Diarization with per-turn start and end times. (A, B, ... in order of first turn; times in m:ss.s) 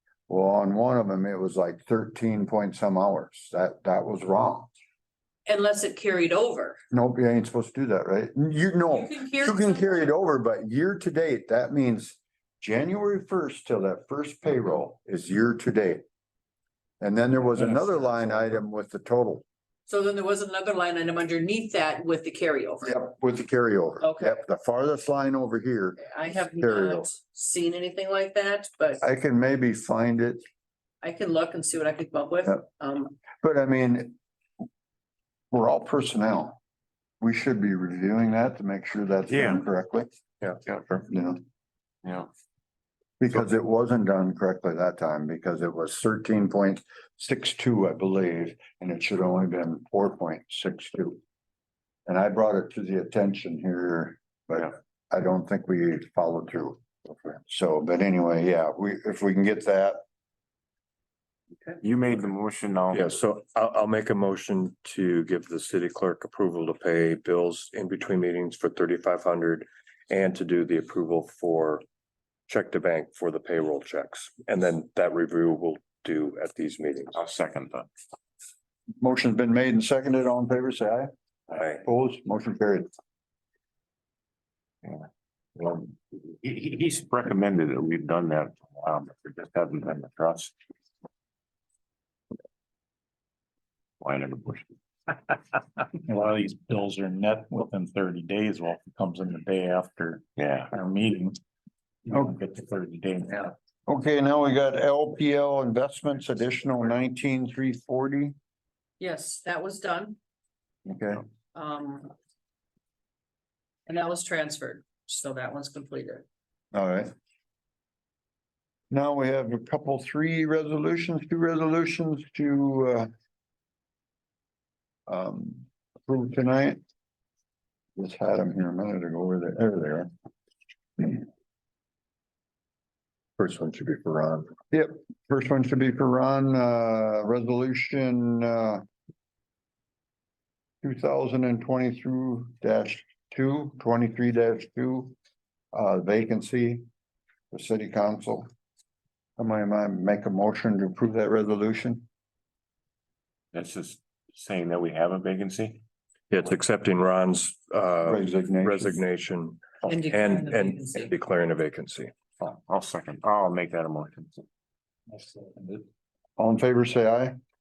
0:00.3-0:04.7 A
0:05.5-0:06.8 B
0:06.9-0:16.0 A
0:08.9-0:10.1 B
0:17.0-0:19.4 A
0:19.9-0:22.9 B
0:22.8-0:27.1 A
0:24.0-0:24.4 B
0:26.0-0:29.0 B
0:29.0-0:30.4 A
0:31.0-0:33.2 B
0:33.4-0:34.2 A
0:35.5-0:36.6 A
0:37.2-0:40.1 A
0:39.3-0:39.6 C
0:40.6-0:41.1 C
0:41.1-0:41.4 A
0:43.2-0:51.2 A
0:52.1-0:56.8 A
0:57.5-1:00.0 A
1:01.8-1:03.1 C
1:03.0-1:11.8 D
1:12.5-1:17.1 D
1:17.1-1:17.9 C
1:19.0-1:21.1 A
1:21.8-1:22.9 A
1:25.6-1:30.5 C
1:34.0-1:35.1 C
1:36.0-1:41.4 E
1:40.4-1:40.7 C
1:42.1-1:43.6 E
1:43.9-1:48.4 A
1:49.0-1:50.2 B
1:50.9-1:51.2 A
1:51.5-1:52.1 B
1:53.9-1:56.2 B
1:56.7-1:57.1 A
1:58.9-2:03.1 A
2:05.1-2:06.8 A
2:08.0-2:10.1 A
2:13.4-2:14.5 D
2:14.7-2:18.8 A
2:20.8-2:25.2 A
2:25.7-2:26.8 A
2:27.5-2:28.5 A
2:29.4-2:32.1 A
2:33.5-2:35.8 C
2:36.3-2:42.1 D
2:38.1-2:39.0 A
2:39.8-2:41.1 B
2:42.4-2:44.4 C
2:45.1-2:45.9 E
2:46.4-2:47.4 A